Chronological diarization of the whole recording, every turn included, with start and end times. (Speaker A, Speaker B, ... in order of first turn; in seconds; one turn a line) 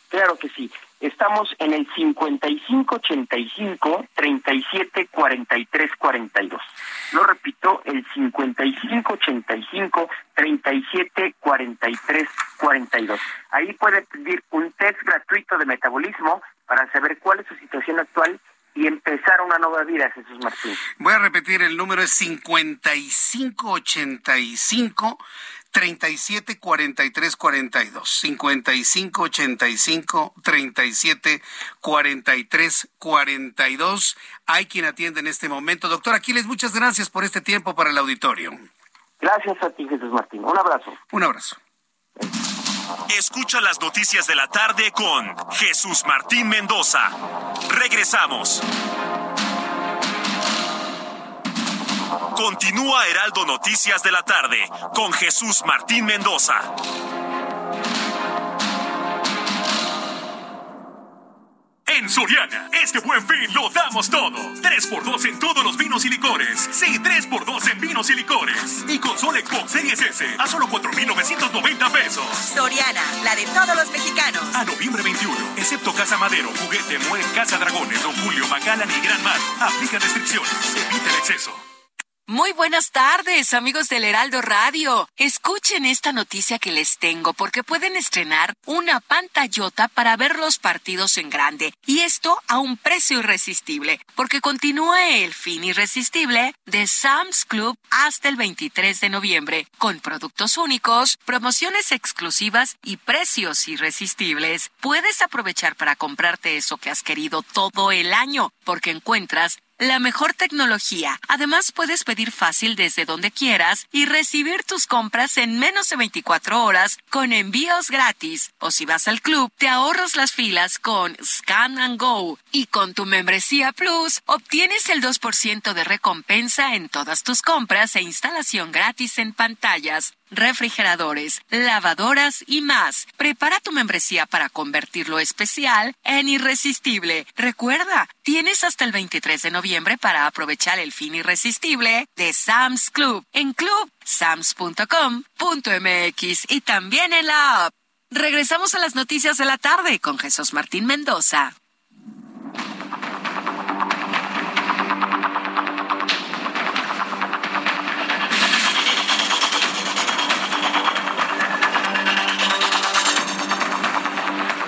Speaker A: 0.1-20.8
Speaker B: 21.0-38.6
Speaker A: 39.2-41.0
Speaker B: 41.1-41.6
Speaker C: 43.1-48.6
Speaker C: 52.3-56.7
Speaker C: 61.9-72.5
Speaker D: 72.5-74.6
Speaker C: 74.5-81.6
Speaker E: 82.3-151.5